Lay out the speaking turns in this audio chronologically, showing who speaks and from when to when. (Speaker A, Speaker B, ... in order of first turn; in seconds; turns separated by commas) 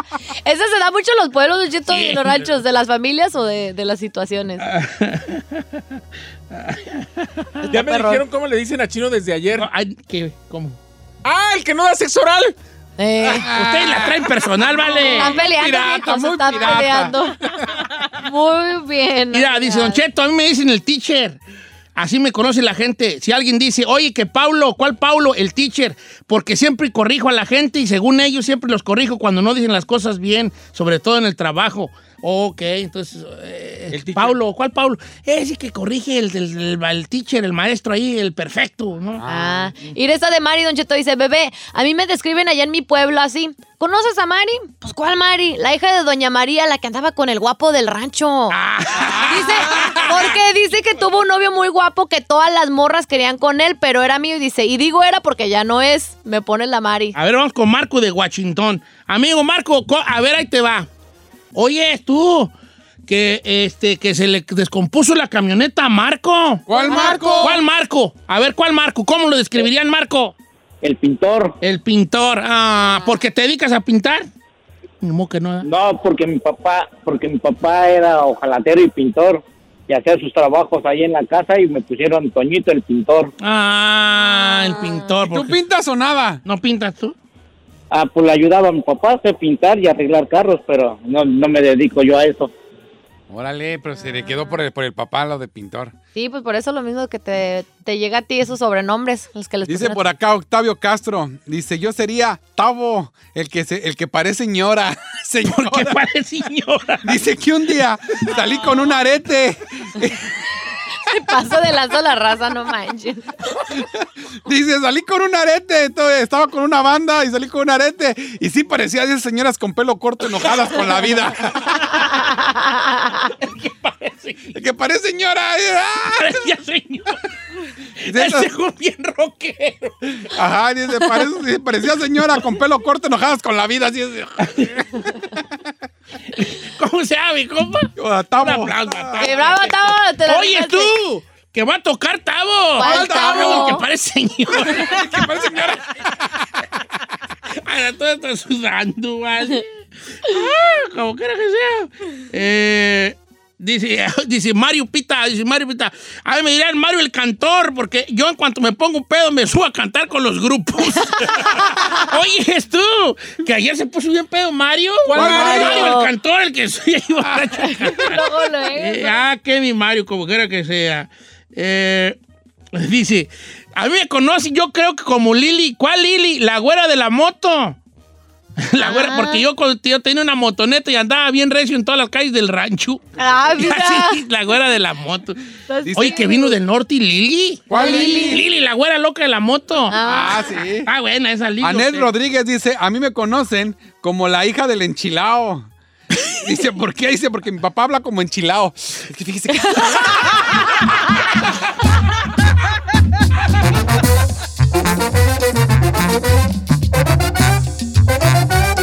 Speaker A: 0.4-4.7, Speaker B: 1.9-2.5, Speaker B: 4.6-6.0, Speaker B: 6.5-7.6, Speaker A: 7.6-8.2, Speaker C: 7.7-9.7, Speaker B: 9.5-10.8, Speaker C: 11.2-12.6, Speaker A: 13.0-13.5, Speaker D: 13.2-17.8, Speaker B: 13.5-15.4, Speaker A: 15.1-17.4, Speaker A: 18.1-20.0, Speaker B: 19.3-21.4, Speaker B: 21.9-40.0, Speaker C: 33.9-34.4, Speaker D: 39.2-39.7, Speaker A: 39.3-48.6, Speaker B: 48.5-50.3, Speaker D: 49.0-50.3, Speaker A: 49.3-57.1, Speaker B: 57.1-60.9, Speaker B: 61.5-62.5, Speaker B: 63.1-70.3, Speaker D: 66.7-67.6, Speaker A: 66.7-67.6, Speaker E: 70.8-71.6, Speaker B: 71.6-74.3, Speaker A: 72.8-73.2, Speaker B: 75.0-75.7, Speaker E: 75.6-83.3, Speaker B: 83.4-85.6, Speaker D: 85.3-86.4, Speaker B: 86.4-87.1, Speaker E: 87.9-92.5, Speaker D: 93.3-95.9, Speaker A: 96.1-100.0, Speaker D: 99.7-106.0, Speaker B: 105.4-107.2, Speaker D: 107.0-110.2, Speaker A: 111.1-113.3, Speaker D: 114.5-121.9, Speaker A: 122.1-123.3, Speaker B: 123.4-124.6, Speaker D: 124.5-126.3, Speaker B: 126.1-127.2, Speaker B: 128.0-130.2, Speaker D: 128.1-128.5, Speaker D: 130.2-135.0, Speaker B: 134.4-134.8, Speaker B: 136.3-145.3, Speaker D: 138.0-139.2, Speaker A: 139.2-140.9, Speaker A: 142.8-143.8, Speaker D: 142.8-143.8, Speaker D: 144.6-146.4, Speaker B: 147.5-172.2, Speaker C: 165.0-165.9, Speaker A: 165.1-166.1, Speaker A: 167.7-169.2, Speaker B: 172.7-177.8, Speaker B: 178.6-185.4, Speaker A: 178.8-179.4, Speaker A: 183.2-184.2, Speaker A: 185.7-186.6, Speaker D: 185.8-186.3, Speaker B: 185.9-190.1, Speaker D: 187.7-188.4, Speaker A: 187.7-188.4, Speaker A: 189.9-190.5, Speaker D: 190.0-190.9, Speaker B: 190.8-192.1, Speaker D: 191.6-195.7, Speaker D: 196.2-200.5